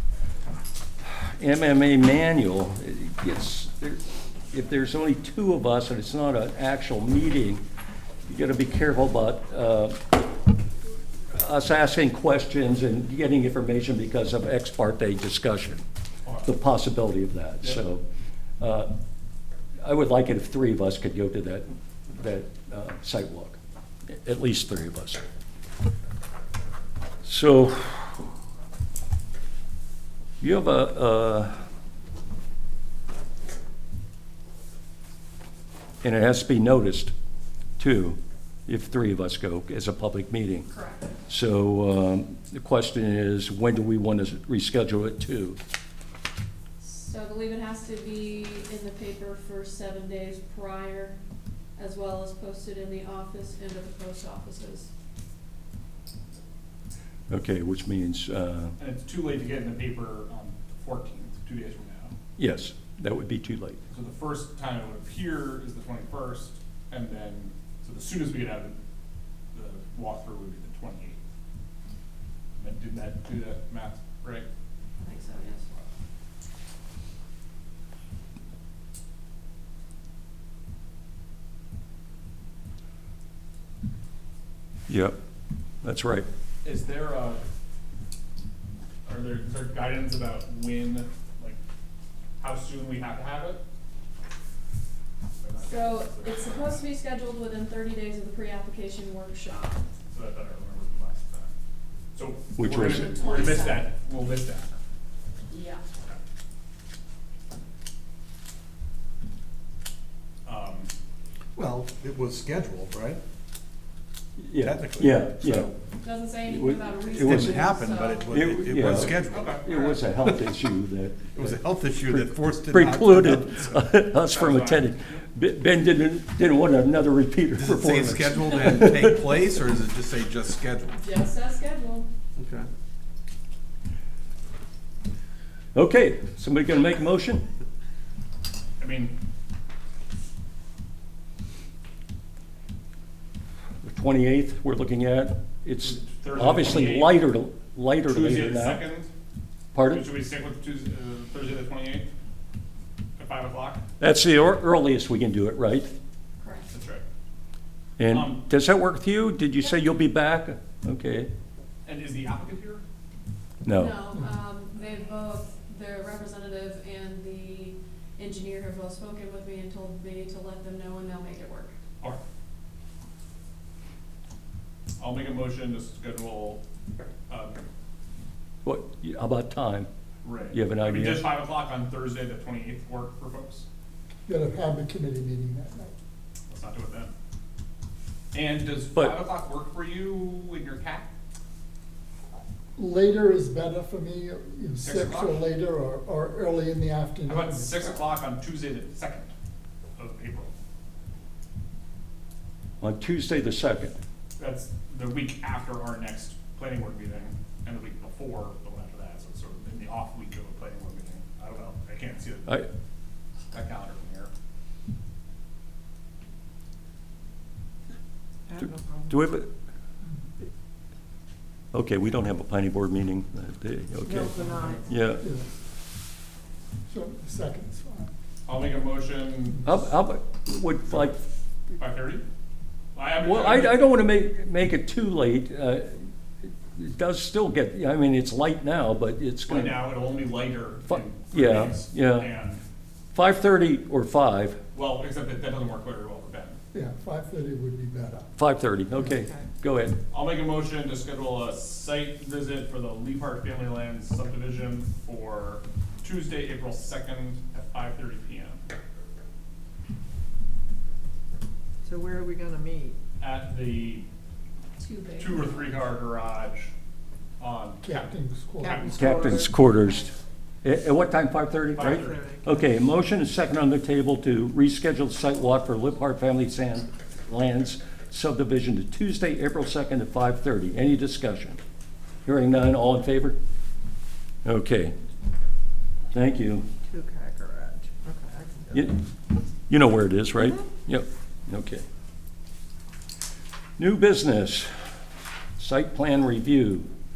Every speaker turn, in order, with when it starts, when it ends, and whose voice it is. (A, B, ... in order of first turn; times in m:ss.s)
0:01.1-0:07.6 A
0:08.3-0:10.0 A
0:11.3-0:15.8 A
0:16.2-0:16.5 B
0:16.4-0:18.0 A
0:18.6-0:18.9 A
0:19.8-0:23.6 A
0:24.1-0:25.2 A
0:27.2-0:28.2 A
0:30.4-0:31.5 A
0:36.0-0:37.1 A
0:37.8-0:40.7 A
0:40.7-0:41.1 C
0:41.3-0:45.6 A
0:46.8-0:51.2 C
0:51.8-0:54.9 C
0:57.3-0:58.8 A
0:58.8-1:02.1 B
1:02.4-1:03.8 A
1:03.9-1:08.8 B
1:09.5-1:11.2 B
1:12.6-1:14.4 B
1:15.0-1:15.8 C
1:24.9-1:25.2 A
1:25.8-1:26.3 A
1:26.6-1:27.4 B
1:29.1-1:31.6 B
1:32.4-1:33.6 B
1:35.4-1:36.8 B
1:35.6-1:39.8 C
1:40.1-1:41.5 B
1:42.1-1:44.8 B
1:42.6-1:43.1 A
1:42.8-1:43.9 C
1:45.5-1:45.8 C
1:50.4-1:50.9 B
1:51.6-1:53.2 D
1:54.4-1:55.7 A
1:54.6-1:55.8 D
1:56.0-1:58.9 C
1:56.4-1:57.7 A
1:57.1-1:59.6 D
1:58.3-2:09.2 A
1:59.3-1:59.9 B
2:01.3-2:03.9 D
2:04.2-2:04.9 B
2:07.5-2:11.0 D
2:10.9-2:12.1 C
2:12.4-2:12.7 D
2:15.7-2:17.4 A
2:18.8-2:19.1 B
2:23.8-2:28.8 A
2:25.9-2:27.2 B
2:28.0-2:29.1 B
2:29.7-2:30.1 A
2:29.8-2:32.1 B
2:33.2-2:33.8 B
2:34.0-2:35.9 A
2:36.4-2:36.7 C
2:36.7-2:37.0 B
2:38.0-2:41.3 A
2:38.1-2:38.4 B
2:41.8-2:42.8 B
2:43.6-2:44.0 A
2:43.7-2:51.7 C
2:55.0-2:56.6 B
2:57.3-2:57.6 B
2:58.6-2:59.9 A
3:00.2-3:03.6 B
3:00.5-3:01.3 A
3:04.3-3:05.9 E
3:06.5-3:07.1 B
3:08.3-3:11.1 B
3:12.8-3:17.9 E
3:14.8-3:15.4 B
3:17.3-3:19.3 B
3:20.0-3:20.5 B
3:22.8-3:24.0 A
3:24.4-3:32.6 B
3:33.5-3:34.3 B
3:38.5-3:39.2 F
3:39.1-3:39.5 A
3:41.7-3:45.2 A
3:44.1-3:44.8 F
3:45.2-3:45.5 E
3:46.9-3:48.1 E
3:48.4-3:49.8 B
3:49.6-3:51.2 A
3:51.8-3:52.2 B
3:52.9-3:53.8 B
3:53.2-3:56.1 A
3:56.7-3:59.9 A
3:59.5-4:02.6 B
4:00.9-4:02.3 A
4:03.1-4:04.6 A
4:04.7-4:06.6 B
4:06.7-4:08.3 E
4:08.4-4:10.0 A
4:10.1-4:18.6 B
4:21.8-4:23.0 F
4:23.2-4:24.1 B
4:24.8-4:25.7 C
4:25.2-4:26.7 B
4:27.4-4:28.1 B
4:27.8-4:28.9 E
4:28.6-4:30.1 F
4:28.6-4:29.3 B
4:28.9-4:30.1 A
4:30.6-4:41.6 A
4:31.8-4:32.2 B
4:31.8-4:32.7 F
4:42.2-4:43.4 A
4:44.4-4:44.9 A
4:46.1-4:46.6 A
4:46.9-4:48.8 F
4:49.7-4:51.8 A
4:53.8-4:54.7 A
4:55.6-4:56.9 A